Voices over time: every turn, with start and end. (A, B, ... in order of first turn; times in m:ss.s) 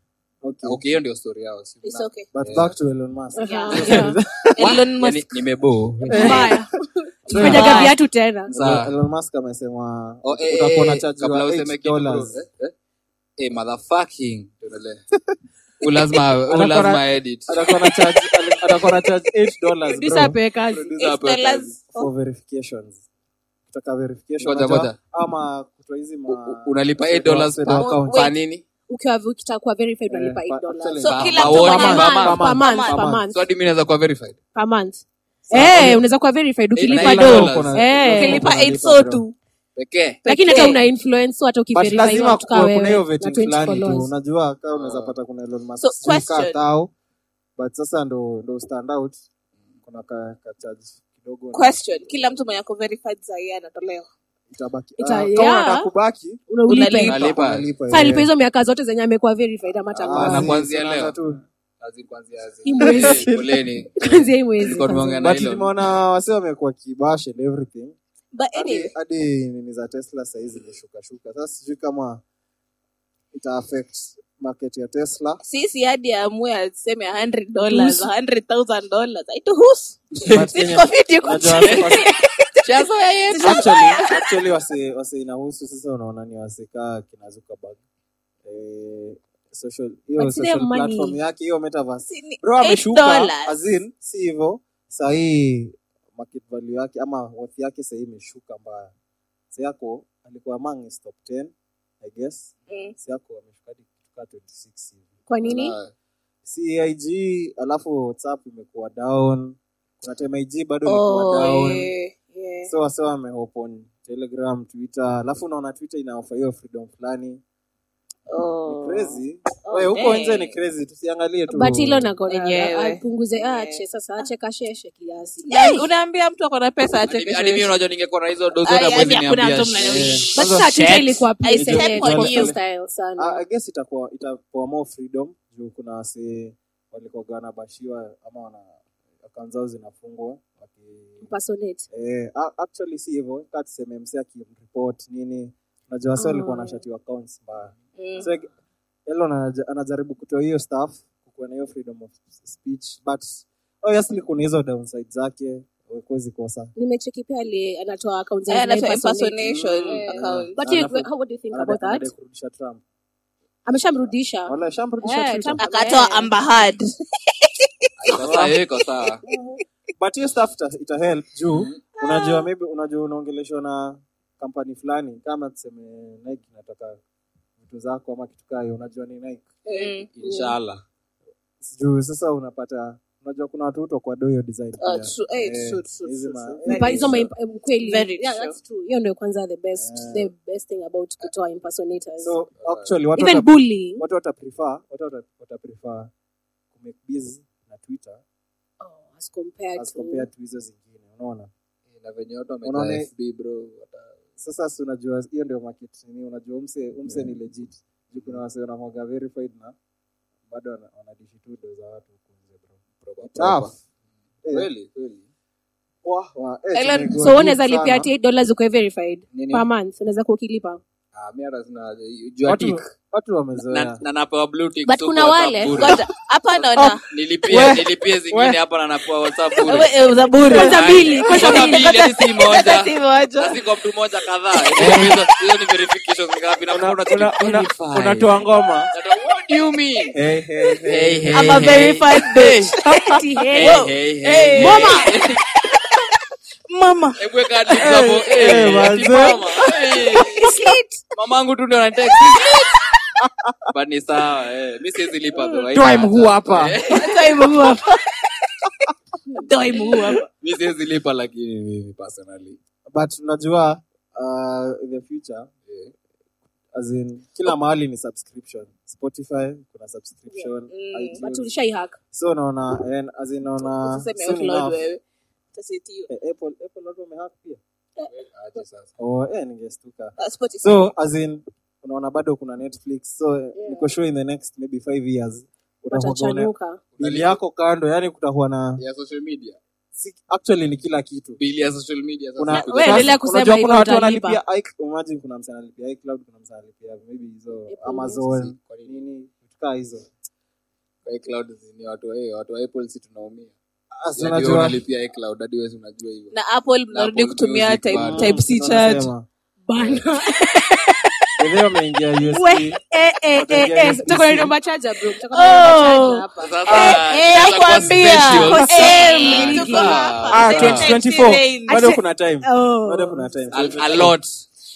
0:00.4-0:00.8 A
0:00.6-0:02.7 B
0:01.8-0:02.3 C
0:02.3-0:04.8 A
0:03.4-0:04.2 D
0:03.4-0:05.4 C
0:04.6-0:06.5 B
0:06.0-0:06.6 A
0:06.1-0:06.7 D
0:07.2-0:08.0 A
0:07.3-0:07.9 C
0:07.3-0:08.5 D
0:07.3-0:07.8 B
0:08.5-0:12.4 A
0:08.5-0:08.9 B
0:10.2-0:12.7 B
0:13.4-0:15.0 B
0:15.8-0:17.6 B
0:16.5-0:20.4 A
0:19.9-0:20.9 D
0:20.7-0:21.8 B
0:21.0-0:22.1 C
0:21.9-0:23.0 A
0:23.7-0:28.3 A
0:24.4-0:25.0 B
0:26.3-0:28.6 B
0:27.7-0:28.3 C
0:28.9-0:33.4 D
0:30.1-0:33.2 A
0:31.0-0:33.0 C
0:31.0-0:32.4 B
0:33.3-0:34.4 B
0:34.5-0:38.4 D
0:35.5-0:36.0 A
0:36.8-0:37.8 B
0:36.9-0:39.2 A
0:38.0-0:39.3 C
0:39.8-0:40.2 B
0:40.2-0:40.8 C
0:40.2-0:44.1 D
0:41.7-0:46.9 A
0:44.7-0:45.1 B
0:45.8-0:46.6 C
0:47.6-0:49.2 A
0:49.8-0:51.7 A
0:51.5-0:54.1 C
0:54.5-0:56.4 A
0:55.0-0:55.9 D
0:56.5-0:57.2 D
0:56.7-0:57.4 C
0:57.0-0:57.7 B
0:57.1-0:58.3 A
0:57.9-1:00.5 D
0:59.9-1:01.4 A
1:00.1-1:01.2 B
1:01.8-1:05.7 B
1:02.6-1:03.3 D
1:02.8-1:03.6 A
1:04.0-1:05.3 D
1:05.2-1:07.9 A
1:08.3-1:08.9 C
1:08.5-1:12.2 A
1:13.3-1:15.4 A
1:15.4-1:22.7 C
1:17.7-1:18.1 D
1:20.2-1:20.5 B
1:20.3-1:22.1 A
1:21.6-1:22.0 B
1:22.6-1:23.8 B
1:23.3-1:24.3 C
1:23.4-1:27.8 A
1:28.4-1:38.9 A
1:30.2-1:31.2 D
1:32.1-1:33.5 C
1:39.5-1:45.1 A
1:42.7-1:42.9 C
1:45.3-1:45.8 D
1:45.4-1:45.9 B
1:46.4-1:51.9 A
1:50.8-1:52.7 C
1:52.6-1:57.4 A
1:58.3-2:00.5 C
1:58.6-2:02.1 A
2:01.5-2:05.8 D
2:02.3-2:03.8 C
2:05.5-2:07.8 C
2:07.1-2:11.1 B
2:08.6-2:10.5 C
2:09.8-2:10.7 A
2:10.3-2:13.4 D
2:11.4-2:12.5 C
2:11.5-2:12.6 A
2:13.2-2:18.7 A
2:19.2-2:21.3 A
2:21.2-2:21.9 D
2:21.9-2:28.5 A
2:26.2-2:26.8 D
2:28.0-2:28.3 C
2:29.1-2:36.7 A
2:36.8-2:39.4 D
2:38.5-2:40.5 C
2:39.4-2:40.0 B
2:39.9-2:42.1 D
2:40.0-2:42.8 A
2:43.6-2:46.3 D
2:44.4-2:45.7 A
2:45.6-2:46.8 C
2:47.4-2:48.3 C
2:48.0-2:49.2 B
2:48.2-2:48.6 A
2:49.2-2:57.0 A
2:51.5-2:51.8 B
2:52.0-2:52.4 C
2:57.6-2:59.5 A
2:59.7-3:00.1 C
2:59.7-3:00.5 D
3:00.1-3:00.8 B
3:01.6-3:07.3 A
3:04.8-3:07.3 C
3:06.7-3:12.4 D
3:07.8-3:08.6 C
3:09.8-3:10.3 A
3:12.2-3:16.1 A
3:12.6-3:12.9 B
3:13.2-3:14.0 D
3:16.7-3:18.2 A
3:18.8-3:20.3 D
3:19.8-3:21.5 A
3:21.9-3:24.2 B
3:22.6-3:23.1 A
3:24.4-3:29.7 A
3:30.5-3:33.8 A
3:33.0-3:33.7 B
3:34.5-3:35.2 B
3:36.0-3:38.1 A
3:36.7-3:37.1 C
3:37.2-3:40.8 D
3:39.3-3:39.7 B
3:41.1-3:42.8 B
3:42.4-3:44.0 A
3:43.6-3:46.0 B
3:44.8-3:45.8 D
3:45.7-3:47.0 C
3:46.5-4:00.2 B
3:47.5-3:48.6 A
3:49.6-3:53.6 C
3:50.4-3:51.9 D
3:50.5-3:51.0 A
3:54.8-3:55.1 A
3:56.7-3:58.9 A
4:00.1-4:01.7 A
4:00.9-4:02.8 B
4:01.3-4:05.2 C
4:02.8-4:03.3 A
4:02.9-4:03.7 D
4:03.5-4:05.4 B
4:04.6-4:05.1 D
4:06.7-4:07.2 C
4:07.2-4:10.5 B
4:07.7-4:08.0 C
4:07.8-4:09.4 A
4:09.1-4:10.8 C
4:10.4-4:10.8 D
4:11.1-4:12.6 B
4:12.3-4:12.7 C
4:13.2-4:13.7 A
4:13.7-4:17.5 B
4:15.7-4:16.8 A
4:16.9-4:18.7 C
4:19.3-4:20.2 C
4:20.4-4:22.6 B
4:22.9-4:25.5 A
4:25.7-4:25.9 B
4:26.7-4:31.5 A
4:30.7-4:31.2 C
4:31.2-4:32.0 D
4:32.1-4:34.8 A
4:33.6-4:35.0 C
4:35.5-4:36.1 C
4:36.1-4:37.6 A
4:38.1-4:38.9 B
4:39.0-4:48.8 A
4:40.2-4:40.8 C
4:43.6-4:43.8 D
4:45.9-4:46.8 D
4:47.0-4:47.4 B
4:48.8-4:49.6 B
4:49.9-4:51.4 A
4:51.4-4:53.2 B
4:52.4-5:00.1 A
4:52.5-4:54.4 D
4:57.7-4:58.2 D
4:58.3-4:59.0 B
5:01.0-5:03.5 B
5:04.0-5:04.8 A
5:04.1-5:06.4 B
5:06.3-5:09.1 C
5:06.9-5:08.4 B
5:07.9-5:09.2 A
5:09.6-5:11.1 D
5:11.4-5:12.8 A
5:12.2-5:17.0 D
5:13.4-5:14.5 A
5:15.3-5:22.0 C
5:16.4-5:20.9 B
5:18.4-5:20.0 D
5:20.3-5:24.2 A
5:21.7-5:23.3 D
5:23.5-5:24.4 B